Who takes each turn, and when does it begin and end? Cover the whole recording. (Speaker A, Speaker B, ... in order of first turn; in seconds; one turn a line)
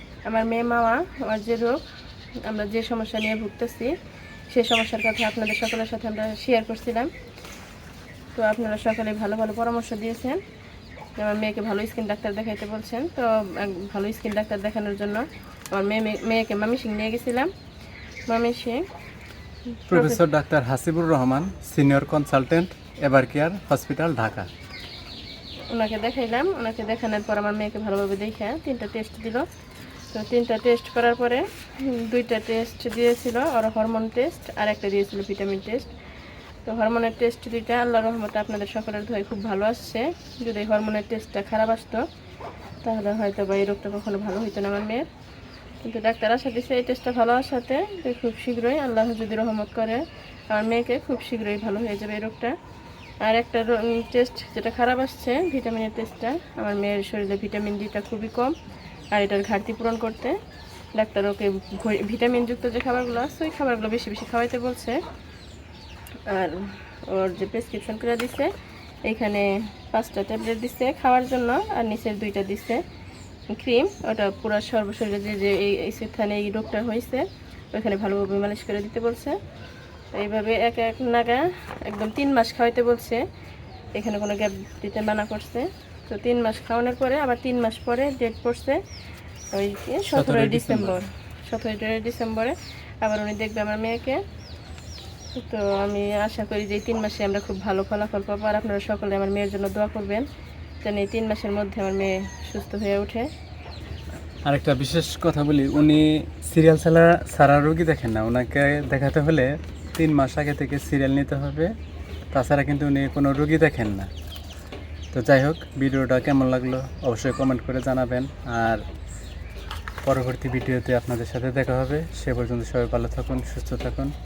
Speaker A: 0.3-1.8
Speaker A: 2.4-3.9
Speaker A: 4.5-7.1
Speaker A: 8.3-10.4
Speaker A: 11.2-17.5
Speaker A: 18.3-18.8
Speaker A: 19.9-20.2
Speaker B: 19.9-24.5
Speaker A: 25.7-29.5
Speaker A: 30.1-35.9
Speaker A: 36.6-42.0
Speaker A: 42.8-45.1
Speaker A: 45.8-52.5
Speaker A: 53.2-58.6
Speaker A: 59.1-60.4
Speaker A: 61.0-65.0
Speaker A: 66.3-68.5
Speaker A: 69.0-72.8
Speaker A: 73.5-79.4
Speaker A: 80.2-83.2
Speaker A: 84.0-88.8
Speaker A: 89.5-94.2
Speaker B: 90.0-91.0
Speaker A: 95.3-100.2
Speaker A: 100.8-103.3
Speaker B: 104.5-111.7
Speaker B: 112.3-114.1
Speaker B: 115.1-118.8
Speaker B: 120.0-124.1